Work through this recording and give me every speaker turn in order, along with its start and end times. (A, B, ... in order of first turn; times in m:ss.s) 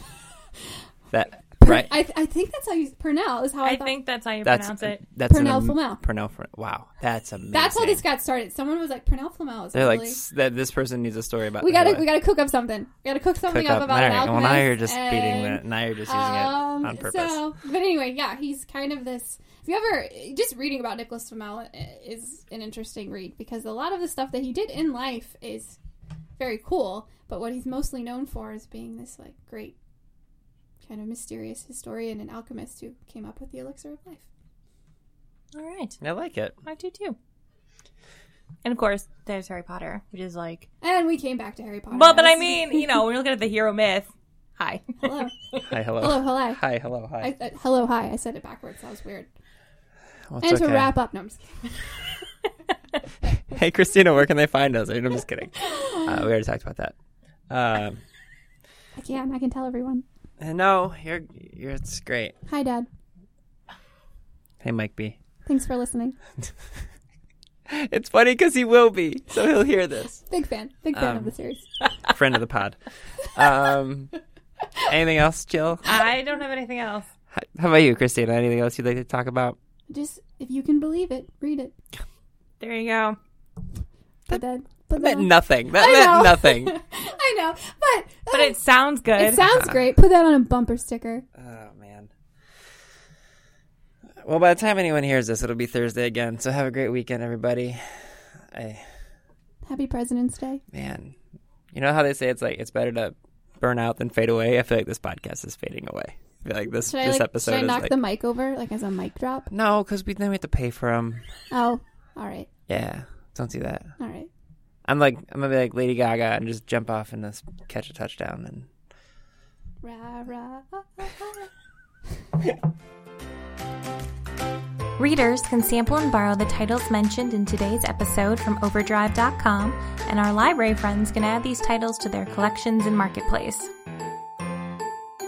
0:01.1-0:01.9 A
0:01.6-0:04.0 B
0:03.6-0:05.0 C
0:04.4-0:08.0 A
0:05.3-0:06.0 B
0:07.5-0:10.2 B
0:09.7-0:12.1 A
0:11.6-0:25.8 B
0:13.5-0:17.4 A
0:26.4-0:29.8 B
0:30.8-0:34.2 B
0:35.5-0:36.0 C
0:36.0-0:36.6 A
0:36.6-0:37.2 C
0:38.6-0:40.7 C
0:40.8-0:43.0 B
0:41.9-0:45.3 C
0:45.0-0:45.3 B
0:45.6-0:47.3 A
0:46.0-0:46.6 B
0:47.2-0:49.3 B
0:50.3-0:50.9 A
0:50.4-0:51.7 B
0:53.5-0:57.0 A
0:55.7-0:56.3 B
0:57.5-0:58.0 A
0:59.0-1:00.0 B
1:00.4-1:02.4 A
1:02.5-1:02.9 B
1:04.6-1:05.2 A
1:05.5-1:06.2 B
1:07.7-1:10.2 A
1:10.3-1:11.7 B
1:10.9-1:11.3 A
1:12.0-1:12.8 A
1:13.3-1:14.1 A
1:14.8-1:15.9 A
1:15.8-1:17.1 C
1:17.3-1:19.6 A
1:19.9-1:21.7 B
1:22.6-1:23.2 C
1:24.3-1:28.6 B
1:25.0-1:26.8 A
1:28.3-1:29.5 C
1:29.2-1:31.3 B
1:31.4-1:32.1 A
1:34.2-1:38.9 A
1:39.6-1:40.6 B
1:40.7-1:41.2 A
1:41.7-1:47.9 A
1:46.9-1:49.5 B
1:49.5-1:51.3 A
1:51.5-1:52.5 B
1:52.7-1:53.9 A
1:54.0-1:54.3 B
1:54.9-1:58.7 A
1:59.8-2:01.5 B
2:05.0-2:13.7 C